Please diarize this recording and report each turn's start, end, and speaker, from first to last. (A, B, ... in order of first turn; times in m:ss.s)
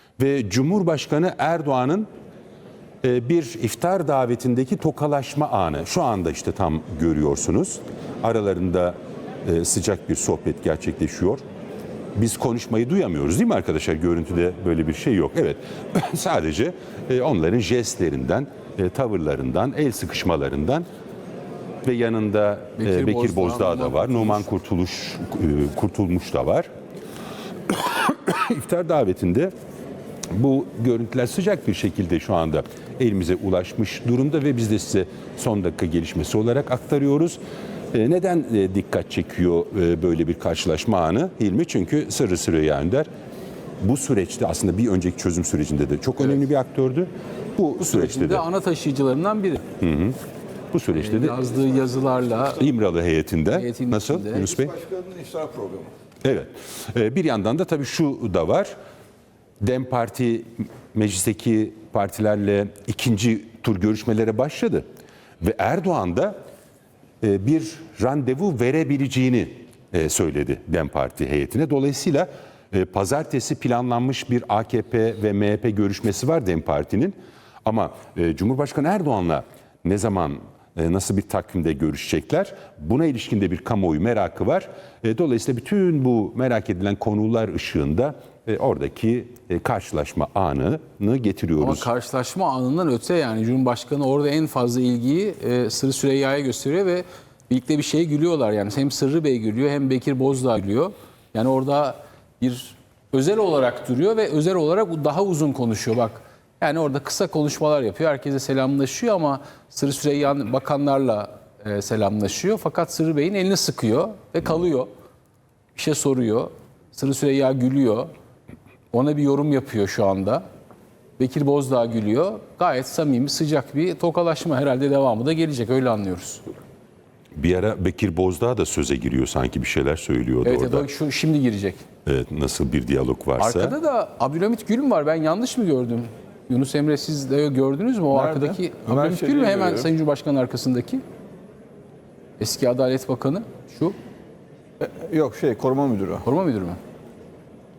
0:00.2-0:02.1 A
0:03.0-0:11.4 A
0:12.2-0:20.9 A
0:21.8-0:26.7 A
0:22.8-0:24.5 B
0:27.7-0:29.5 A
0:30.3-0:37.4 A
0:37.9-0:43.1 A
0:43.8-0:48.4 A
0:47.8-0:49.6 B
0:49.8-0:50.2 A
0:50.7-0:51.4 A
0:50.9-0:52.6 B
0:52.6-0:54.8 A
0:53.5-0:54.5 B
0:54.5-0:55.9 C
0:56.2-0:58.7 A
0:59.6-1:04.8 A
1:05.4-1:06.4 A
1:07.2-1:31.9 A
1:31.6-1:54.9 B
1:55.8-1:58.1 B
1:58.9-2:00.4 B
2:01.2-2:06.5 B
2:07.4-2:10.9 A
2:10.4-2:11.8 B
2:12.1-2:13.8 A
2:13.4-2:21.0 B
2:18.1-2:19.9 C
2:22.4-2:24.0 B
2:24.8-2:26.2 C
2:26.2-2:26.8 B